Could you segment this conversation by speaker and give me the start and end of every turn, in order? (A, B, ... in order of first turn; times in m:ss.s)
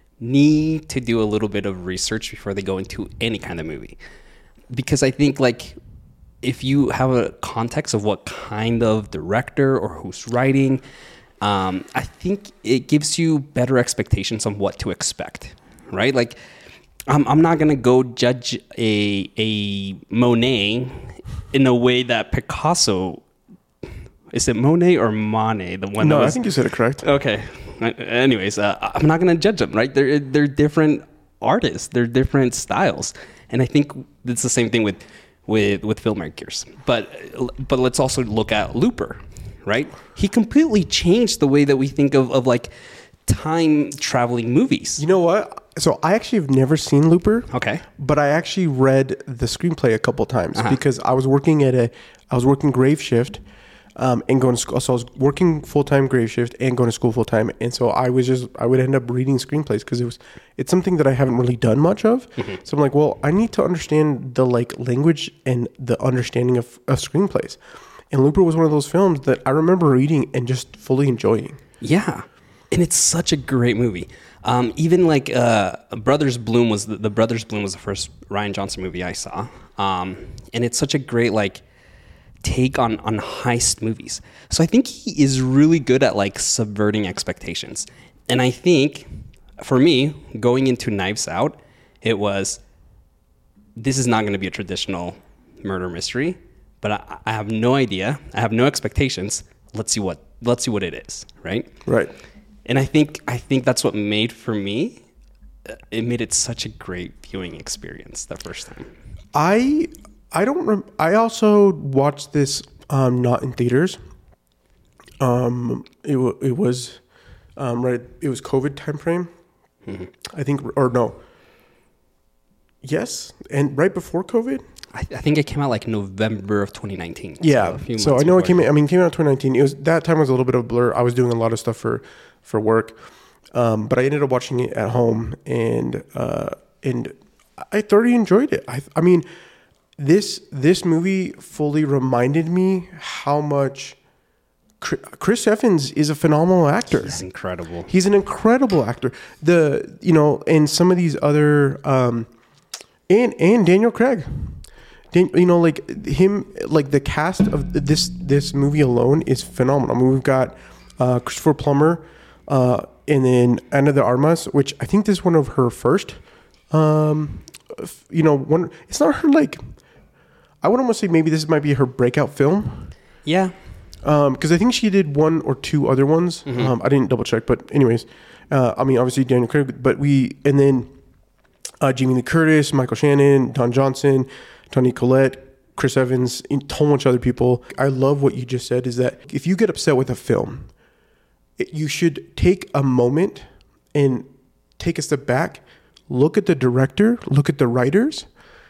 0:00.2-0:04.0 A
0:04.7-0:05.8 A
0:06.4-0:10.8 A
0:11.4-0:16.4 A
0:17.1-0:23.2 A
0:24.3-0:26.4 A
0:26.0-0:27.0 B
0:27.0-0:42.7 A
0:43.2-0:45.0 A
0:45.0-0:53.4 B
0:47.5-0:47.8 A
0:54.0-1:11.6 B
1:11.8-1:21.6 A
1:22.4-1:32.6 A
1:33.8-1:41.8 A
1:41.8-1:42.1 B
1:42.6-1:45.0 A
1:45.7-1:48.9 A
1:49.3-1:54.0 B
1:55.2-1:57.0 B
1:57.6-1:59.3 B
2:00.2-2:01.2 B
2:02.8-2:04.6 B
2:04.9-2:08.7 A
2:07.4-2:13.0 B
2:13.5-2:19.2 B
2:20.0-2:24.0 B
2:24.8-2:27.2 B
2:26.9-2:27.9 A
2:27.9-2:32.3 B
2:33.1-2:46.2 B
2:46.7-2:49.7 B
2:50.6-2:52.9 B
2:53.2-2:53.5 A
2:54.0-3:00.9 B
3:01.8-3:10.7 B
3:11.6-3:18.3 B